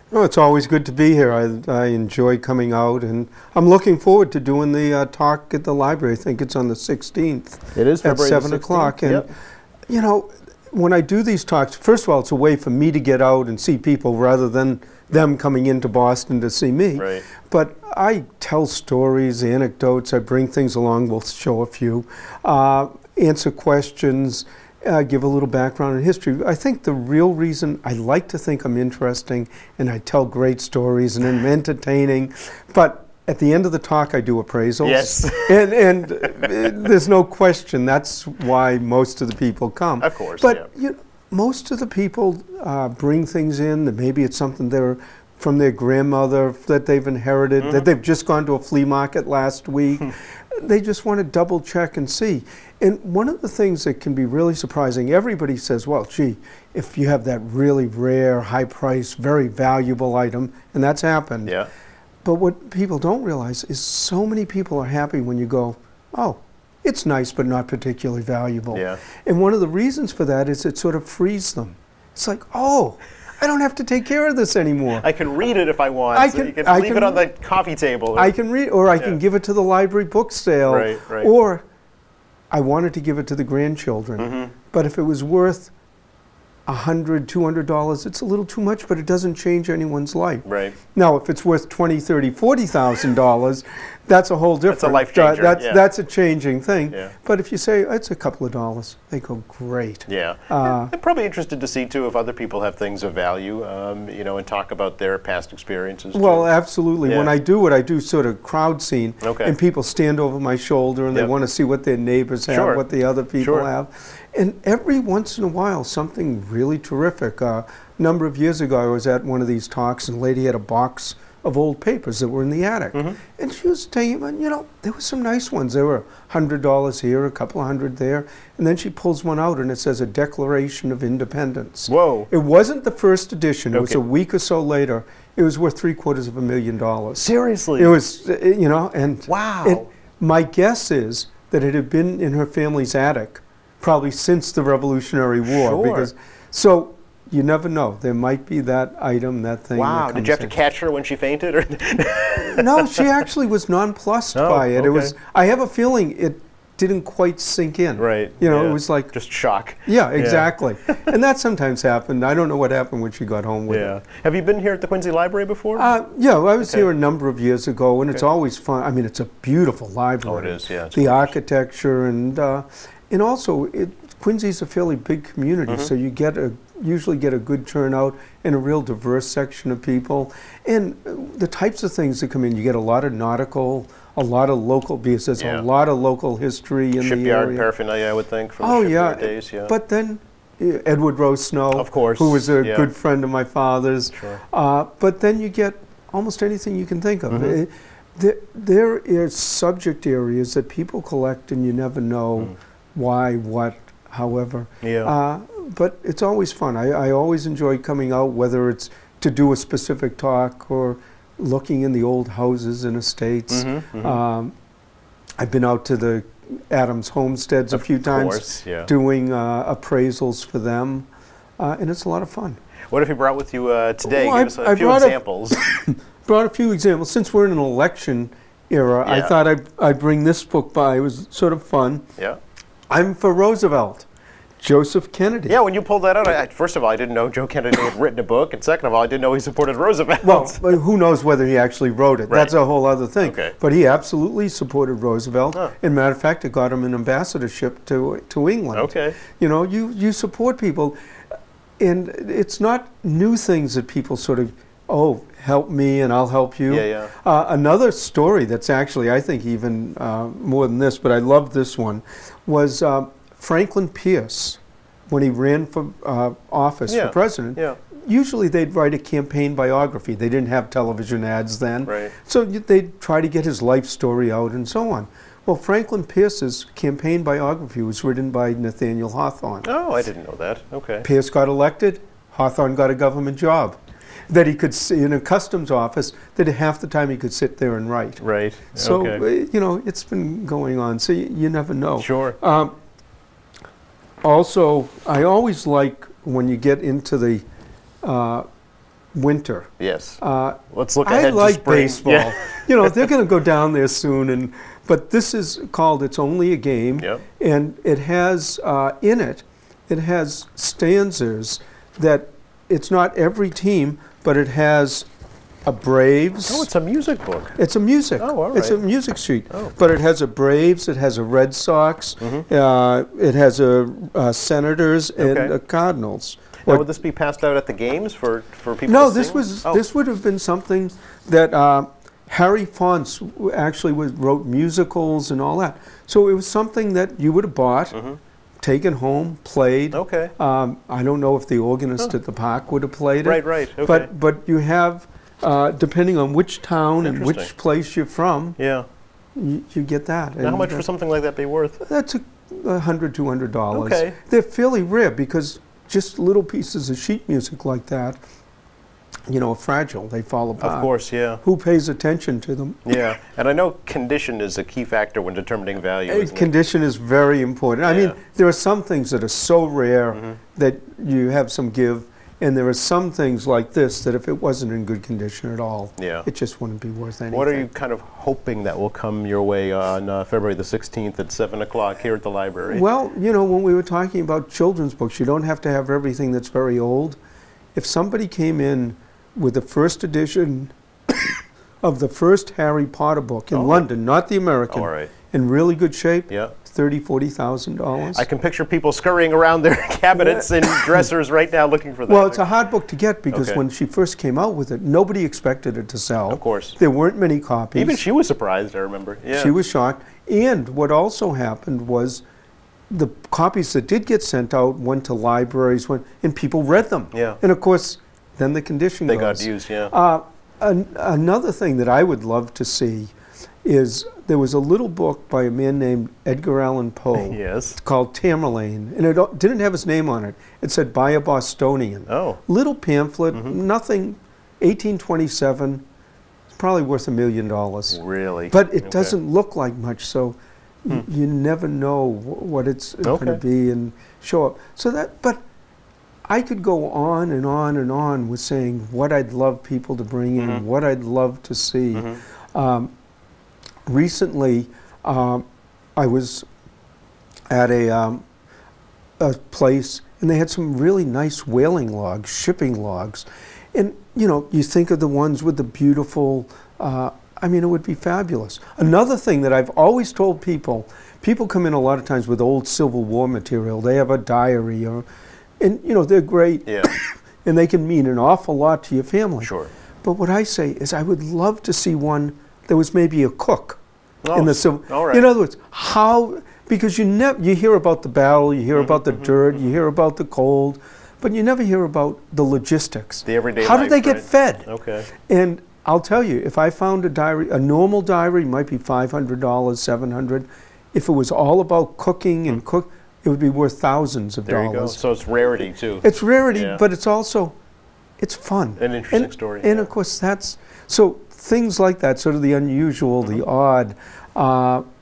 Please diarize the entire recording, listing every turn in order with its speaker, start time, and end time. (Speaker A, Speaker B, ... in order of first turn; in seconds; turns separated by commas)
Speaker A: 0.1-9.3, Speaker B: 7.8-9.3, Speaker A: 9.9-61.6, Speaker B: 17.0-17.2, Speaker B: 34.8-35.7, Speaker B: 40.0-40.7, Speaker B: 47.6-47.9, Speaker A: 62.2-75.1, Speaker B: 68.7-69.0, Speaker B: 74.9-78.3, Speaker A: 76.1-77.3, Speaker A: 78.2-81.7, Speaker B: 80.7-81.3, Speaker A: 82.5-85.7, Speaker B: 84.2-84.5, Speaker A: 86.7-100.9, Speaker B: 90.5-90.8, Speaker B: 94.7-95.8, Speaker B: 100.1-106.5, Speaker A: 106.1-137.2, Speaker B: 107.0-107.3, Speaker B: 109.2-109.6, Speaker B: 112.5-112.8, Speaker B: 113.4-113.7, Speaker B: 131.9-132.3, Speaker B: 133.7-134.0, Speaker B: 137.2-138.0, Speaker A: 137.8-150.5, Speaker B: 139.3-139.9, Speaker B: 145.5-146.1, Speaker B: 149.8-153.1, Speaker A: 152.4-159.1, Speaker B: 154.3-155.1, Speaker B: 158.0-161.0, Speaker A: 159.8-163.9, Speaker B: 163.7-165.9, Speaker A: 165.8-187.7, Speaker B: 166.6-166.9, Speaker B: 170.2-171.3, Speaker B: 175.7-175.9, Speaker B: 185.4-185.7, Speaker B: 187.0-189.7, Speaker A: 188.6-214.5, Speaker B: 191.8-192.9, Speaker B: 194.1-194.4, Speaker B: 197.3-197.6, Speaker B: 204.8-205.1, Speaker B: 213.5-214.2, Speaker A: 215.4-221.1, Speaker B: 217.7-218.9, Speaker A: 221.6-222.6, Speaker B: 222.9-225.6, Speaker A: 224.1-232.1, Speaker B: 229.1-229.3, Speaker A: 232.9-234.1, Speaker A: 234.6-235.6, Speaker B: 235.5-240.8, Speaker A: 240.2-251.0, Speaker B: 242.3-242.6, Speaker B: 243.2-243.6, Speaker B: 248.7-249.2, Speaker A: 251.8-279.7, Speaker B: 256.7-257.1, Speaker B: 266.9-267.8, Speaker B: 271.9-272.1, Speaker B: 279.6-281.1, Speaker A: 281.0-283.8, Speaker A: 284.3-288.2, Speaker B: 288.2-289.2, Speaker A: 288.8-292.8, Speaker B: 292.0-292.4, Speaker A: 294.2-297.4, Speaker A: 298.0-298.5, Speaker A: 299.1-299.7, Speaker B: 299.8-303.1, Speaker A: 300.2-315.1, Speaker A: 315.6-316.7, Speaker B: 316.5-317.6, Speaker A: 317.6-326.9, Speaker B: 318.2-318.8, Speaker B: 322.2-322.5, Speaker B: 325.2-325.5, Speaker B: 326.6-329.8, Speaker A: 328.9-338.0, Speaker B: 337.9-338.2, Speaker A: 338.6-348.6, Speaker B: 339.9-340.3, Speaker B: 343.2-344.1, Speaker B: 347.0-347.5, Speaker B: 348.6-348.9, Speaker A: 349.4-350.9, Speaker B: 350.4-351.8, Speaker A: 351.8-358.2, Speaker B: 353.7-354.2, Speaker A: 359.3-362.8, Speaker B: 360.6-361.4, Speaker B: 362.9-366.5, Speaker A: 366.1-377.7, Speaker B: 367.9-368.2, Speaker B: 376.0-376.3, Speaker B: 377.3-382.9, Speaker A: 382.7-387.2, Speaker A: 387.8-398.2, Speaker B: 393.5-393.9, Speaker B: 394.7-395.1, Speaker B: 396.3-396.6, Speaker B: 398.1-402.4, Speaker A: 400.1-401.1, Speaker A: 402.1-408.0, Speaker B: 403.3-403.6, Speaker B: 406.3-406.8, Speaker B: 407.8-409.6, Speaker A: 409.3-412.2, Speaker A: 412.9-423.1, Speaker B: 417.1-417.4, Speaker B: 419.1-419.9, Speaker A: 423.6-435.8, Speaker B: 427.1-427.8, Speaker B: 432.1-432.4, Speaker A: 436.5-445.4, Speaker B: 437.9-439.1, Speaker B: 443.0-443.4, Speaker A: 446.3-452.9, Speaker B: 450.4-450.6, Speaker B: 451.9-452.2, Speaker A: 453.9-455.4, Speaker A: 456.0-456.5, Speaker A: 457.5-458.2, Speaker A: 459.2-475.1, Speaker A: 475.6-479.5, Speaker B: 479.4-479.7, Speaker A: 480.0-483.8, Speaker B: 484.2-485.3, Speaker A: 484.3-494.7, Speaker B: 488.7-489.6, Speaker B: 493.3-495.1, Speaker A: 495.3-505.0, Speaker B: 504.5-506.8, Speaker A: 506.0-507.6, Speaker A: 508.2-514.8, Speaker B: 508.8-509.9